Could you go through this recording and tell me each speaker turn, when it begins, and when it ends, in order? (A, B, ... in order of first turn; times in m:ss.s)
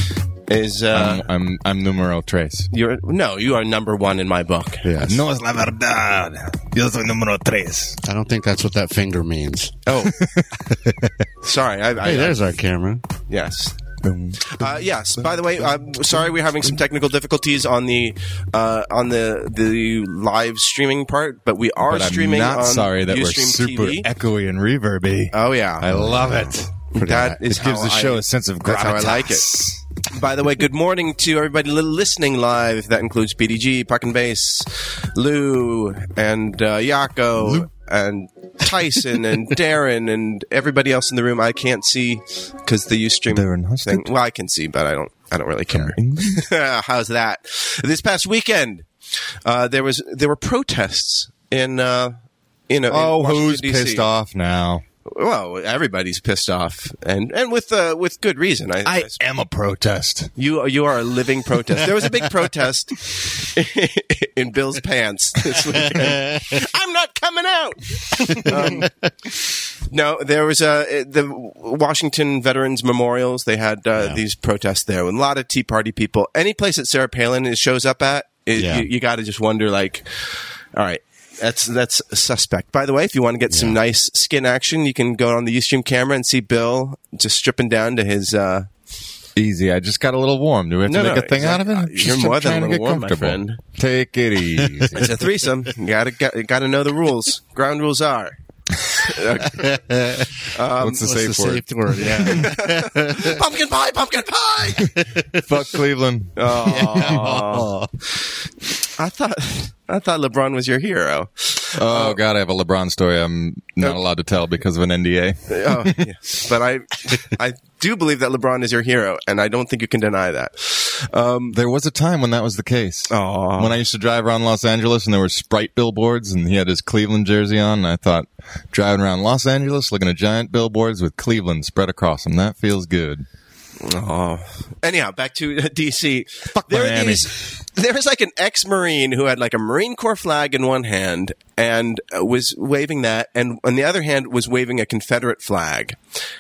0:00.5-0:01.3 A
0:00.9-0:02.7 B
0:02.7-0:04.9 A
0:04.8-0:05.2 C
0:05.0-0:08.0 B
0:08.0-0:09.8 C
0:09.9-0:10.2 A
0:10.2-0:10.5 B
0:10.8-0:11.1 C
0:11.4-0:12.4 A
0:12.0-0:13.0 C
0:13.3-0:13.8 A
0:14.0-0:14.7 B
0:14.4-0:24.1 A
0:21.8-0:26.7 B
0:25.3-0:25.9 A
0:26.9-0:29.5 A
0:27.0-0:27.4 C
0:27.4-0:29.8 B
0:30.1-0:48.9 A
0:43.3-0:44.1 B
0:45.7-0:46.4 B
0:49.4-0:52.2 A
0:52.7-0:54.1 A
0:52.9-0:54.8 B
0:55.1-0:59.2 A
0:58.8-1:00.3 B
1:00.4-1:08.9 A
1:09.9-1:28.7 A
1:18.6-1:18.9 C
1:23.5-1:23.8 C
1:29.4-1:35.2 B
1:30.9-1:33.6 A
1:34.9-1:38.4 A
1:38.9-1:39.8 A
1:39.5-1:43.4 C
1:40.5-1:41.0 A
1:40.8-1:42.5 B
1:42.2-1:44.9 A
1:44.8-1:47.2 B
1:45.0-1:45.4 C
1:46.4-1:47.7 A
1:46.6-1:47.9 C
1:49.0-1:52.2 A
1:51.8-1:56.0 B
1:55.5-2:01.6 A
2:01.5-2:13.3 B
2:03.1-2:03.8 A
2:13.8-2:26.0 A
2:16.5-2:17.3 B